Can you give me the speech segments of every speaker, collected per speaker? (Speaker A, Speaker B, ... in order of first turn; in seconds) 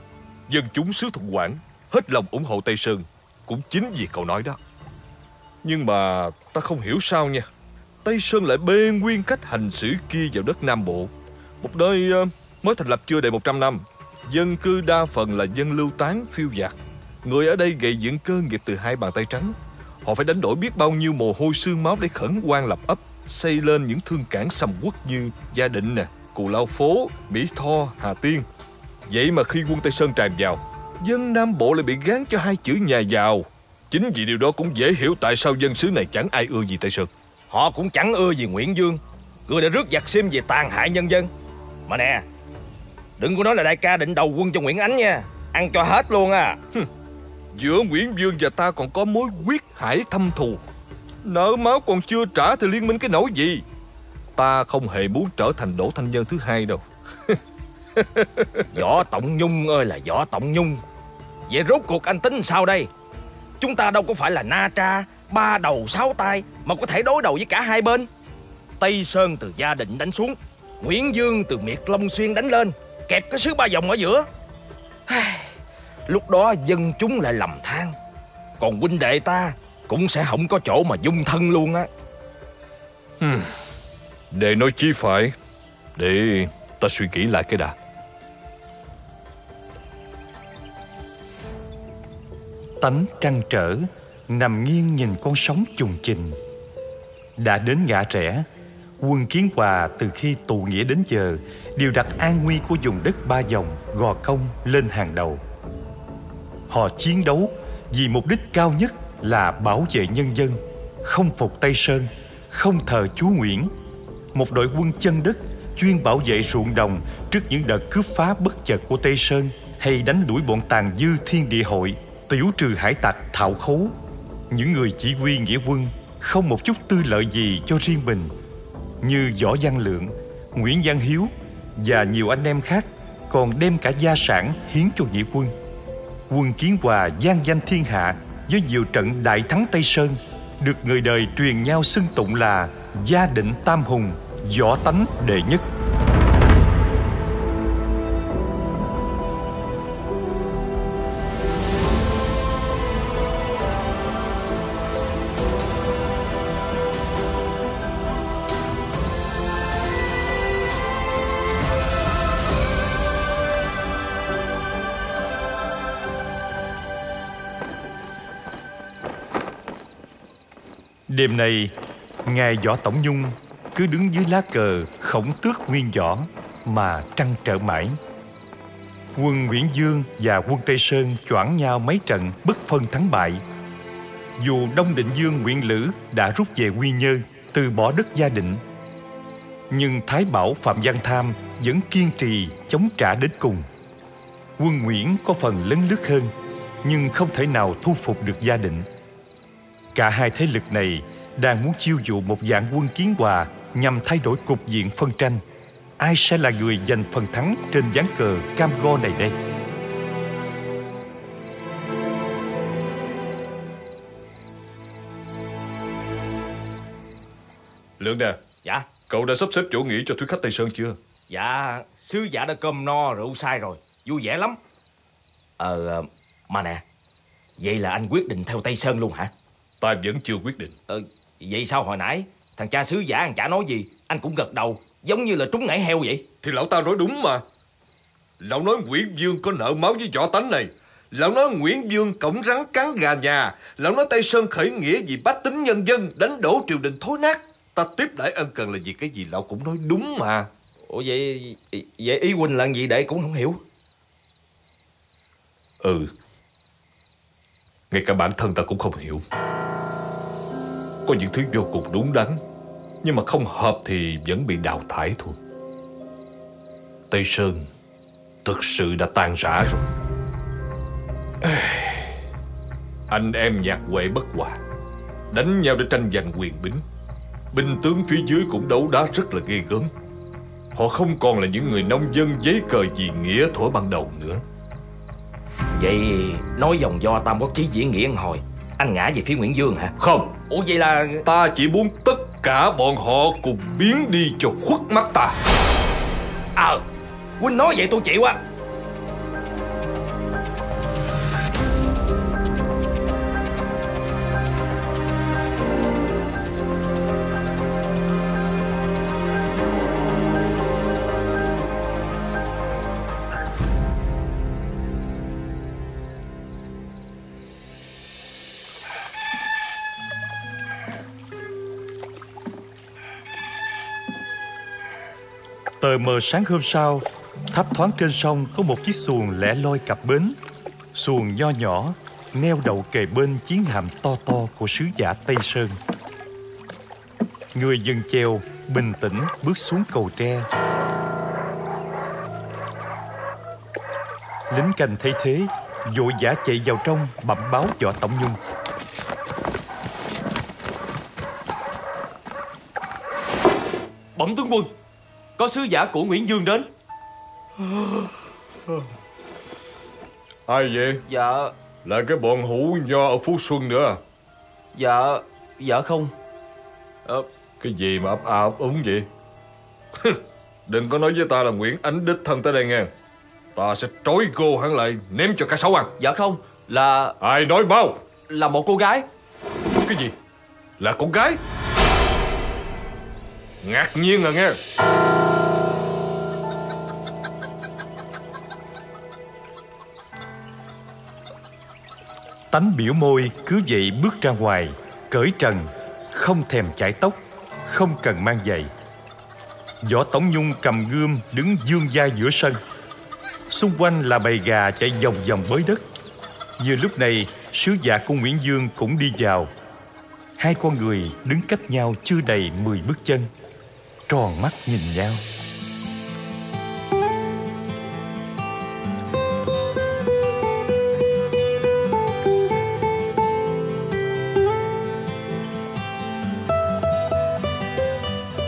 Speaker A: 0.5-4.6, 5.6-7.5, 8.0-28.4, 29.1-37.1, 47.5-50.6, 51.2-53.6, 54.4-57.4, 58.0-58.7, 83.2-83.5, 84.3-85.3, 86.0-87.7, 218.0-218.4, 219.1-221.0, 229.8-230.7, 236.4-237.4, 238.4-250.5, 255.8-256.1, 257.9-259.2, 261.0-262.4, 263.0-265.4, 267.1-267.7, 268.4-269.8, 271.4-272.1, 273.1-274.6, 275.3-276.8, 277.5-279.9, 280.7-284.4, 290.0-290.3, 291.2-295.4, 357.6-358.1, 360.5-361.0, 361.8-364.0, 367.6-369.1, 370.0-372.9, 373.6-375.9, 377.2-378.0, 379.8-380.1, 380.8-381.4, 383.6-384.6
Speaker B: 37.5-41.3, 41.9-42.2, 43.2-46.6, 58.7-60.8, 61.5-62.9, 63.6-68.1, 68.8-74.3, 75.1-75.5, 76.0-78.0, 78.6-81.9, 221.3-224.6, 225.6-226.8, 227.6-229.3, 230.9-236.2, 250.9-253.6, 285.7-289.9, 290.5-291.2, 296.6-296.8, 297.4-298.4
Speaker C: 92.8-96.4, 97.4-98.5, 99.0-105.4, 106.7-113.7, 114.3-123.9, 124.5-128.3, 129.0-135.5, 136.3-145.7, 171.1-171.7, 172.2-178.0, 179.2-183.4, 184.4-188.6, 189.7-193.7, 194.6-196.3, 196.8-198.9, 199.9-205.4, 206.0-209.4, 325.8-330.4, 330.9-335.8, 337.5-340.5, 344.5-348.4, 392.5-398.7, 399.8-402.6, 403.5-405.8, 406.6-409.5, 410.4-413.3, 414.1-415.2
Speaker D: 354.1-354.8, 355.4-356.7, 361.1-361.5, 364.7-366.1, 376.0-377.2, 378.3-379.1